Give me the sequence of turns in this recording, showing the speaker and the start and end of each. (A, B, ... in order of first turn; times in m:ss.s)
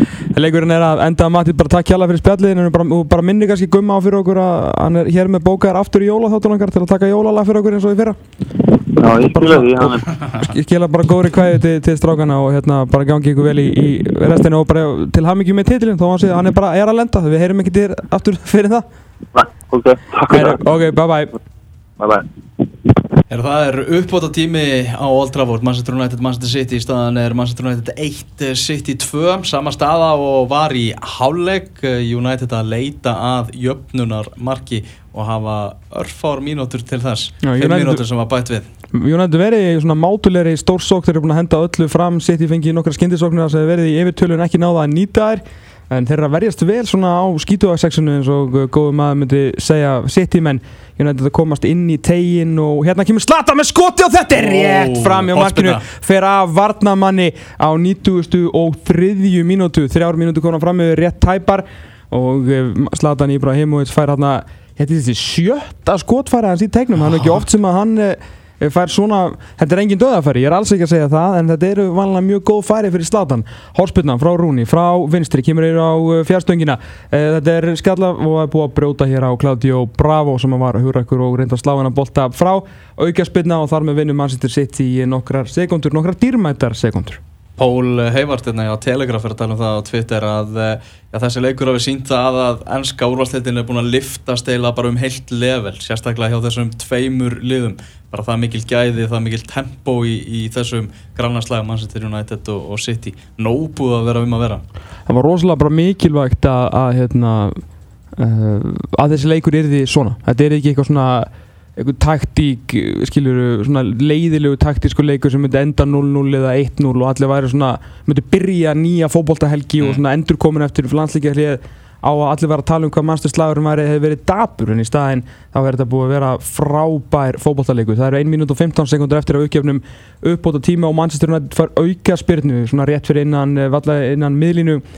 0:00.3-0:08.2 A
0:09.0-0:10.0 B
0:09.3-0:18.8 A
0:19.3-0:20.6 B
0:20.3-0:21.3 A
0:22.0-0:22.2 B
0:23.3-0:38.6 C
0:37.4-0:38.0 A
0:38.9-1:27.2 A
0:54.4-0:55.8 C
1:07.0-1:07.4 C
1:27.6-1:44.6 C
1:45.1-1:47.6 A
1:48.2-2:14.8 A